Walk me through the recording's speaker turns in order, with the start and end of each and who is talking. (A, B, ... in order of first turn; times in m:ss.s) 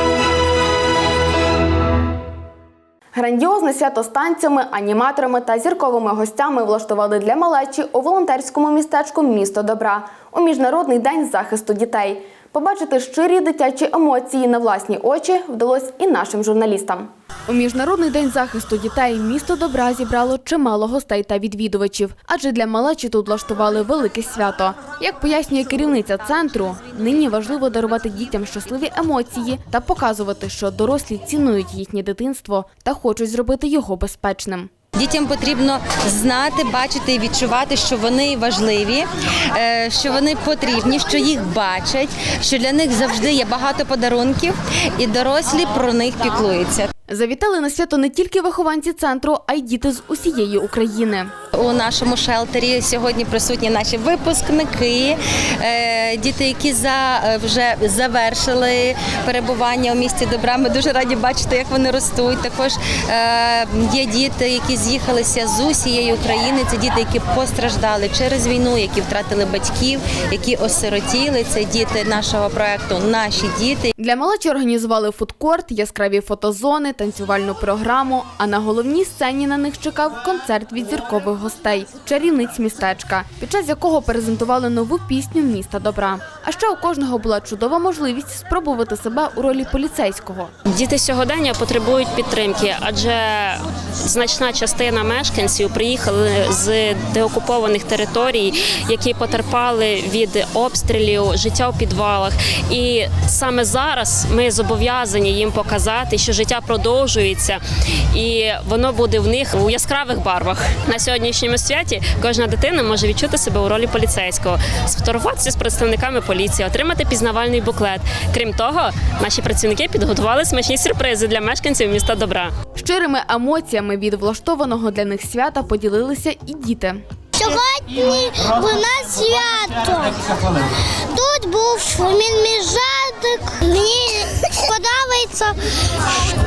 0:03.1-0:34.7 A
0:34.9-0:46.9 B
0:47.1-0:51.3 A
0:51.5-1:13.9 B
1:14.0-1:30.5 A
1:30.7-1:47.6 C
1:48.1-2:02.5 C
2:02.7-2:07.0 A
2:07.4-2:10.4 D
2:11.1-2:15.6 D